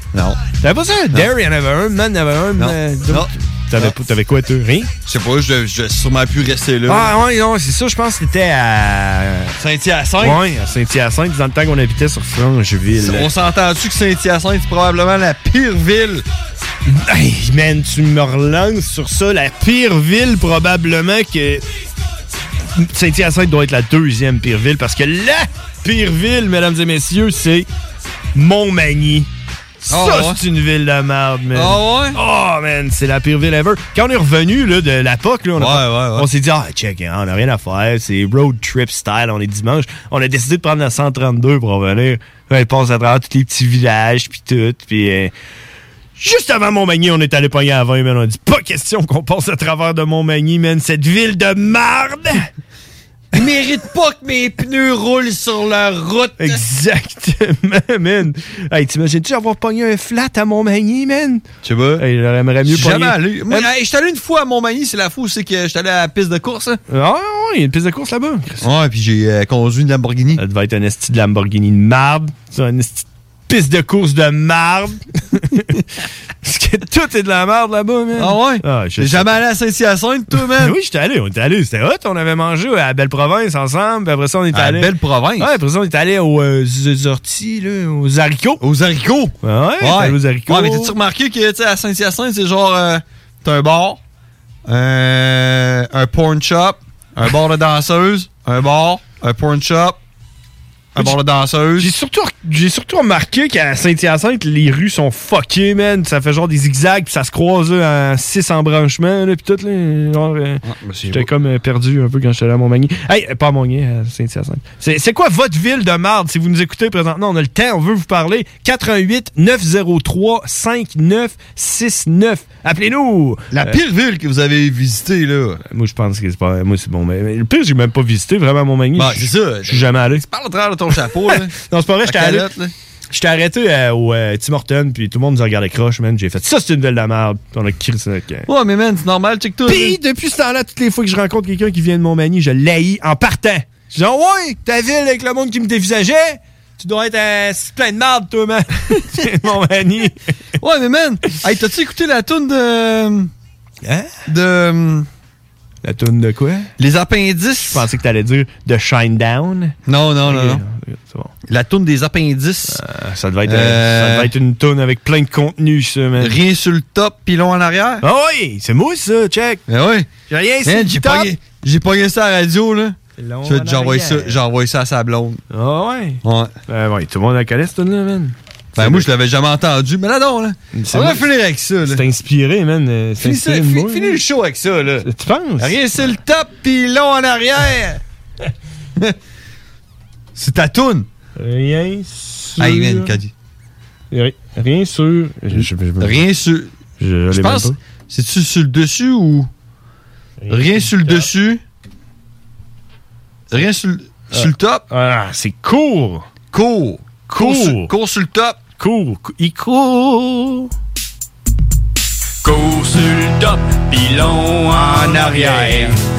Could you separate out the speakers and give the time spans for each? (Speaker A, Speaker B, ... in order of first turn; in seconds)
Speaker A: 0.1-0.4, 2.6-3.9, 5.0-7.2, 9.6-10.4, 13.0-16.2, 29.9-30.4, 31.5-32.2, 35.6-36.3, 53.3-56.6, 61.6-62.0, 62.6-66.8, 68.6-70.4, 78.2-80.8, 84.5-85.5, 88.6-94.0, 94.7-100.0, 100.9-101.9, 110.6-111.3, 123.5-125.6, 128.9-131.5, 132.0-132.7, 138.5-140.0, 150.6-153.3, 154.3-155.1, 156.8-157.8, 159.8-160.6, 161.4-162.8, 163.4-164.3, 166.2-168.0, 169.7-170.1, 170.6-175.4, 176.2-176.5, 178.7-182.0, 183.2-188.0, 190.3-191.1, 192.6-193.3, 196.0-196.7, 197.3-199.5, 200.5-201.6, 203.5-204.8, 206.5-208.6, 214.7-215.9
Speaker B: 0.6-4.9, 6.9-9.6, 10.2-13.3, 16.9-21.6, 22.8-27.7, 28.3-29.3, 29.8-45.3, 46.2-52.5, 56.4-61.4, 62.0-63.7, 66.9-68.7, 70.4-75.8, 76.4-79.4, 80.4-88.6, 89.4-91.0, 101.8-123.8, 125.7-130.2, 131.3-132.5, 133.1-138.5, 139.7-150.2, 153.8-154.1, 155.8-156.7, 157.7-161.3, 162.7-166.3, 168.0-169.6, 170.3-171.3, 173.2-174.4, 175.5-179.1, 180.7-181.3, 181.8-184.2, 185.0-185.8, 191.4-193.2, 194.1-196.2, 197.0-197.8, 200.4-201.3, 204.3-206.2, 207.3-207.9, 208.8-210.7, 215.1-215.8
Speaker C: 212.4-215.8